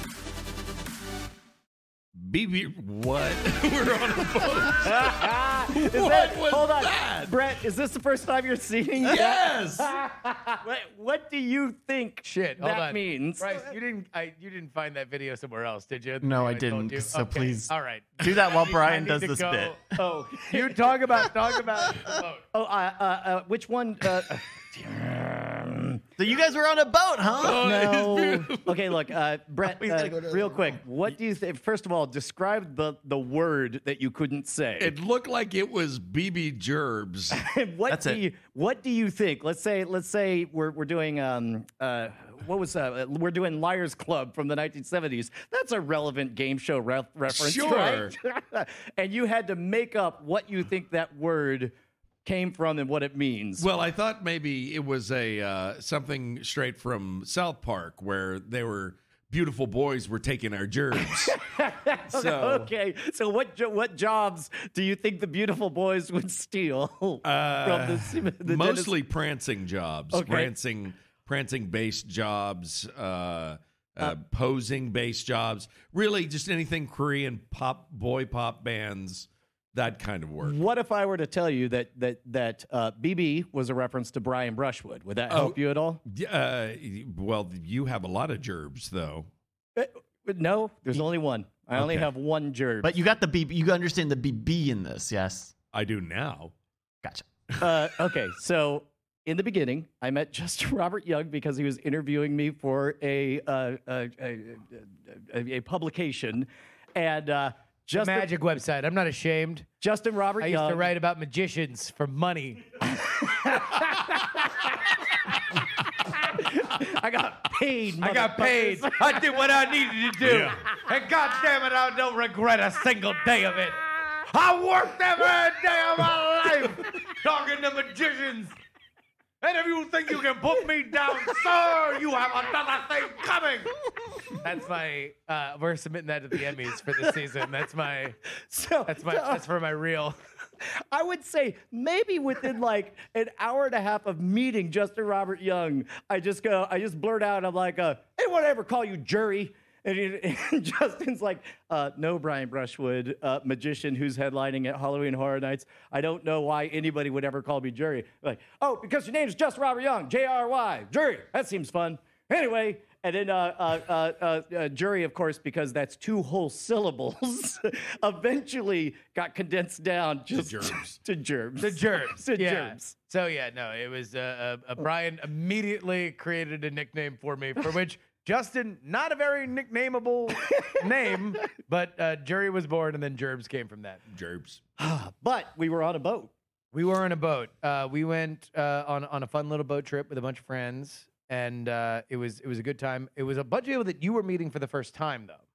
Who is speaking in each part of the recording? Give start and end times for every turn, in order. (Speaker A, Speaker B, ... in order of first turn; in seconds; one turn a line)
Speaker A: 2.1-7.4
Speaker B: 4.7-13.7
Speaker A: 9.0-9.9
Speaker C: 12.2-19.8
Speaker D: 16.2-19.9
Speaker B: 19.9-21.3
Speaker C: 20.5-22.4
Speaker B: 22.5-26.0
Speaker D: 26.2-27.7
Speaker A: 27.4-28.8
Speaker B: 27.4-35.0
Speaker D: 29.6-30.8
Speaker A: 34.8-37.4
Speaker B: 37.3-51.7
Speaker D: 37.9-38.2
Speaker A: 47.3-48.1
Speaker B: 52.2-53.7
Speaker A: 53.6-61.4
Speaker B: 60.9-68.9
Speaker A: 62.1-62.7
Speaker A: 67.2-80.6
Speaker B: 70.1-70.5
Speaker B: 80.4-86.0
Speaker A: 85.3-89.3
Speaker B: 89.8-92.9
Speaker D: 92.8-95.5
Speaker A: 95.7-96.5
Speaker D: 97.0-97.3
Speaker B: 97.6-108.3
Speaker C: 107.9-109.7
Speaker B: 109.8-110.9
Speaker C: 110.4-112.7
Speaker B: 112.8-119.5
Speaker C: 118.0-128.6
Speaker A: 120.2-120.6
Speaker C: 129.4-133.7
Speaker C: 134.4-138.2
Speaker B: 138.5-139.4
Speaker C: 138.8-140.2
Speaker B: 140.6-172.9
Speaker A: 170.3-171.0
Speaker C: 171.6-184.0
Speaker B: 180.6-180.8
Speaker A: 184.1-184.6
Speaker B: 184.8-186.3
Speaker C: 186.7-195.4